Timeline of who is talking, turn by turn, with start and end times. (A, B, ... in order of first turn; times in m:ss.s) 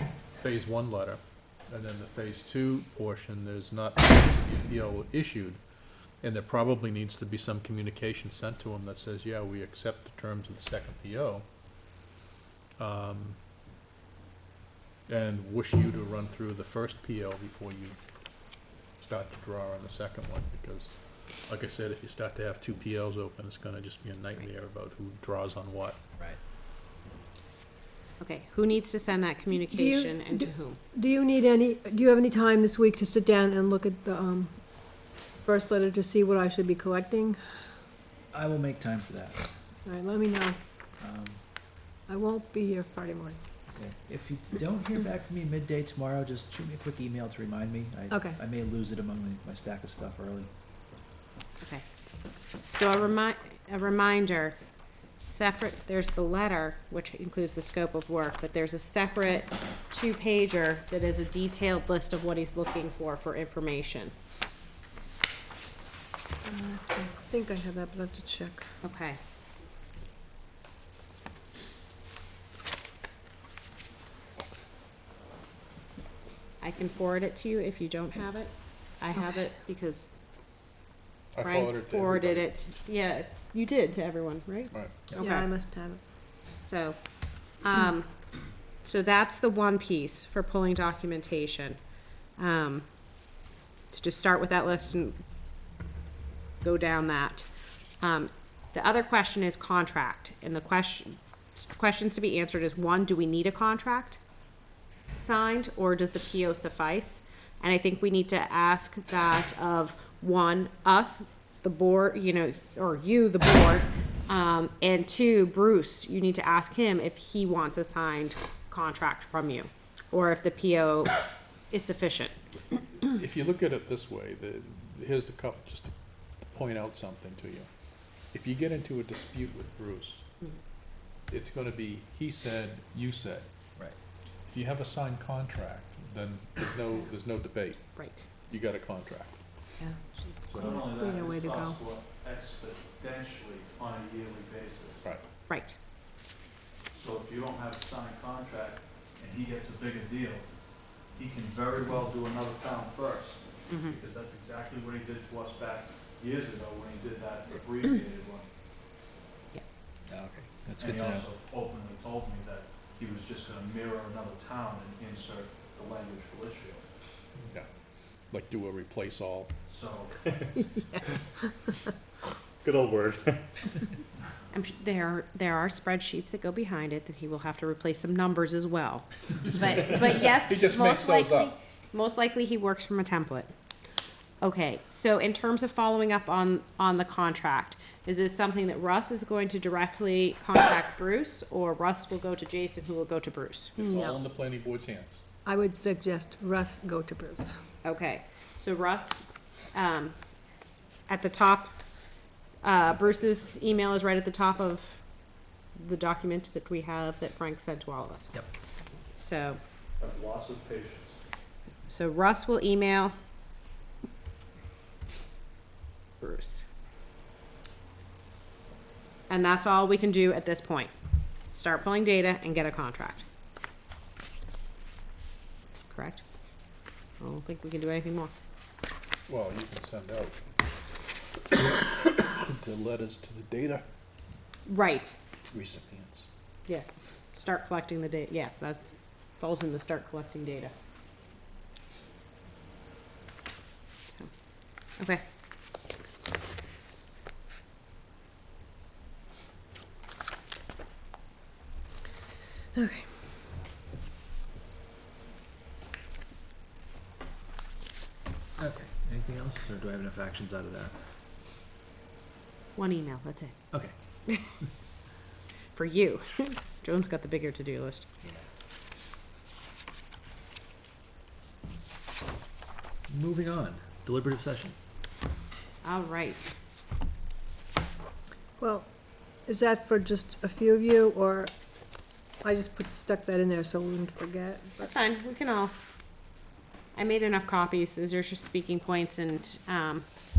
0:00.4-0:05.6 A
0:06.2-0:11.4 A
0:12.8-0:13.4 A
0:15.1-0:18.0 A
0:19.0-0:26.0 A
0:28.2-0:30.8 B
0:29.7-0:34.6 C
0:35.4-0:37.4 C
0:38.3-0:39.5 D
0:39.9-0:40.6 C
0:41.0-0:41.4 D
0:42.1-0:43.4 C
0:43.8-0:50.5 D
0:48.1-0:48.4 C
0:51.6-0:54.6 B
0:55.2-1:04.1 B
1:06.4-1:08.7 C
1:08.8-1:09.2 B
1:16.6-1:20.1 B
1:21.3-1:22.5 A
1:21.4-1:25.5 B
1:24.7-1:25.0 A
1:25.2-1:26.0 C
1:26.6-1:27.0 B
1:27.6-1:28.1 B
1:28.8-1:31.8 B
1:32.4-1:32.8 B
1:33.9-1:35.2 B
1:36.6-1:37.5 B
1:38.0-1:44.2 B
1:45.2-2:01.2 B
2:01.7-2:02.4 B
2:03.0-2:05.9 A
2:06.5-2:07.7 A
2:08.3-2:10.2 A
2:11.3-2:13.5 A
2:14.5-2:17.8 A
2:18.0-2:18.3 B
2:18.5-2:19.4 A
2:20.5-2:20.7 A
2:20.5-2:25.0 E
2:20.6-2:21.8 C
2:25.5-2:25.8 B
2:26.9-2:30.4 E
2:31.1-2:38.5 E
2:33.7-2:34.0 B
2:40.1-2:41.3 D
2:40.8-2:46.8 E
2:48.3-2:49.5 A
2:49.7-2:50.1 E
2:50.6-2:51.0 C
2:52.6-2:53.3 D
2:54.5-3:03.5 B
2:59.5-3:01.5 A
3:04.4-3:13.8 B
3:13.8-3:15.2 A
3:13.8-3:14.2 C
3:15.5-3:17.6 C
3:17.8-3:19.2 B
3:19.7-3:20.2 B
3:21.1-3:21.7 B
3:22.6-3:25.0 B
3:25.8-3:28.4 B
3:29.1-3:29.6 B
3:30.0-3:31.2 E
3:31.9-3:33.2 B
3:36.2-3:36.6 B
3:39.3-3:40.9 B
3:41.5-3:43.2 B
3:45.9-3:46.2 B
3:47.2-3:48.3 B
3:49.3-3:50.4 A
3:51.5-3:53.8 A
3:54.7-3:55.2 B
3:55.5-3:56.2 A
3:56.7-4:00.7 B
4:12.8-4:13.1 C
4:18.6-4:20.9 D
4:22.8-4:23.6 B
4:25.7-4:28.1 B
4:33.1-4:34.8 D
4:35.8-4:36.5 B
4:38.6-4:38.9 C
4:39.5-4:41.5 C
4:42.4-4:44.9 C
4:44.8-4:45.7 B
4:47.0-4:50.0 B